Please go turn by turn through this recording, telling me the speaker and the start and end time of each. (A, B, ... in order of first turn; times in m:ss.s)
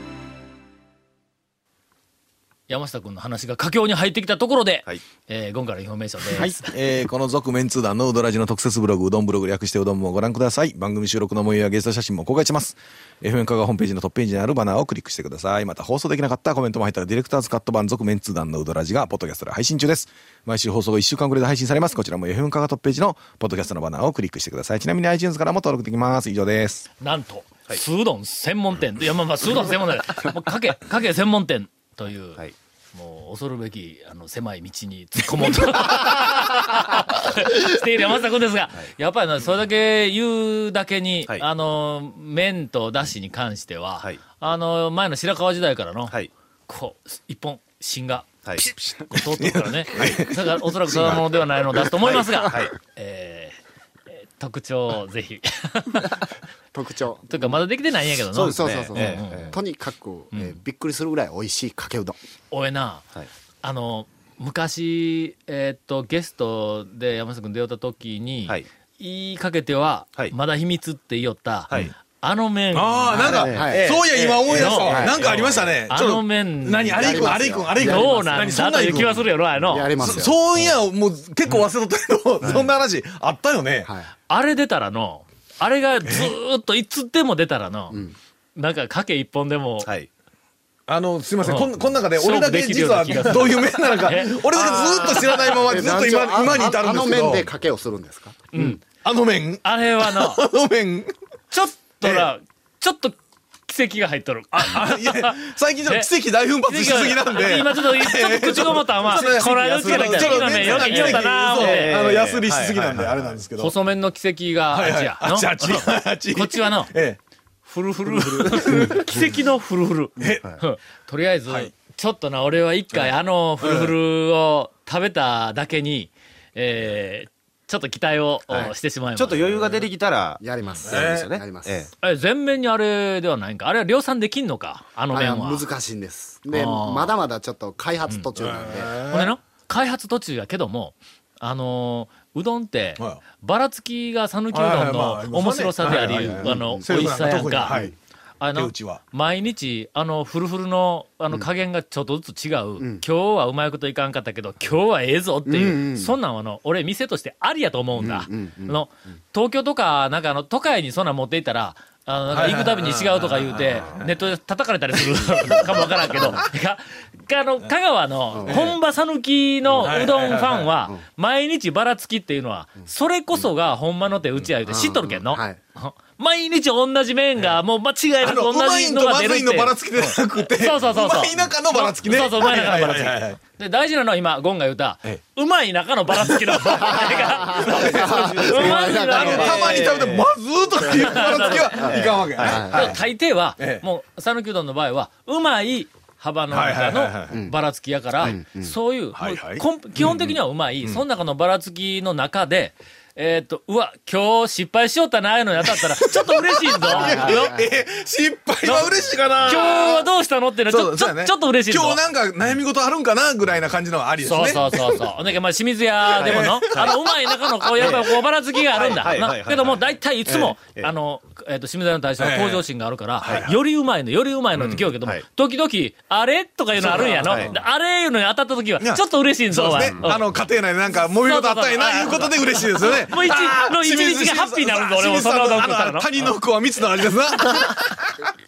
0:02.7-0:06.7 A
0:06.3-0:26.9 B
0:27.0-0:32.4 A
0:32.9-0:53.6 A
0:48.9-0:52.2 B
0:54.2-0:56.3 A
0:56.7-0:57.5 C
0:57.3-0:59.6 A
0:58.3-0:59.5 D
0:58.4-1:02.2 C
1:00.3-1:00.6 A
1:02.5-1:03.0 A
1:03.6-1:13.5 A
1:12.7-1:19.1 B
1:13.1-1:13.9 C
1:13.2-1:16.2 D
1:14.5-1:20.1 A
1:14.8-1:15.3 C
1:16.9-1:18.5 C
1:19.6-1:20.4 C
1:20.0-1:23.9 B
1:22.4-1:22.7 D
1:23.8-1:24.1 C
1:24.3-1:28.0 A
1:26.0-1:26.3 B
1:27.9-1:28.2 C
1:28.6-1:29.9 A
1:29.8-1:30.1 D
1:30.9-1:37.5 B
1:31.4-1:35.5 A
1:34.6-1:35.2 D
1:35.5-1:38.4 C
1:38.5-1:38.8 A
1:39.0-1:41.1 B
1:39.6-1:40.4 A
1:41.5-1:46.1 A
1:42.0-1:42.3 B
1:44.5-1:53.7 B
1:46.6-1:52.1 A
1:49.1-1:53.4 D
1:53.6-1:56.9 A
1:54.7-1:57.2 B
1:57.6-2:09.5 A
1:58.4-1:59.0 B
2:00.2-2:00.5 B
2:03.6-2:03.9 B
2:08.5-2:11.9 D
2:10.4-2:11.8 C
2:10.8-2:11.3 B
2:12.0-2:15.7 A
2:15.1-2:19.0 C
2:16.5-2:17.1 A
2:18.4-2:19.3 B
2:19.1-2:27.8 A
2:24.5-2:27.9 B
2:26.0-2:26.3 D
2:26.3-2:26.8 C
2:27.6-2:27.9 C
2:28.4-3:09.9 A
2:28.5-2:29.0 B
2:32.8-2:33.0 C
2:35.4-2:36.2 C
2:38.0-2:38.8 C
2:42.3-2:44.0 B
2:48.3-2:48.7 C
2:48.5-2:48.8 B
2:49.8-2:50.7 B
2:54.6-2:55.6 C
2:58.2-3:03.4 B
3:06.3-3:06.8 B
3:06.8-3:09.4 C
3:07.5-3:08.2 B
3:07.7-3:10.3 D
3:09.1-3:13.0 B
3:10.8-3:13.0 C
3:10.9-3:11.9 A
3:11.8-3:12.7 D
3:12.5-3:27.6 A
3:13.6-3:13.8 B
3:16.5-3:17.4 B
3:18.2-3:18.7 C
3:19.1-3:21.0 B
3:25.7-3:30.0 B
3:26.9-3:27.8 C
3:28.6-3:28.9 A
3:29.4-3:32.0 A
3:30.7-3:35.0 B
3:34.2-3:50.3 A
3:36.1-3:38.0 B
3:36.2-3:37.0 D
3:37.8-3:38.1 D
3:38.7-3:40.0 D
3:40.3-3:40.5 B
3:40.5-3:40.9 D
3:42.2-3:42.7 B
3:43.2-3:43.6 B
3:44.6-3:44.8 B
3:46.8-3:47.5 B
3:46.8-3:47.6 D
3:48.8-3:58.1 B
3:49.8-3:50.2 D
3:51.1-3:56.4 A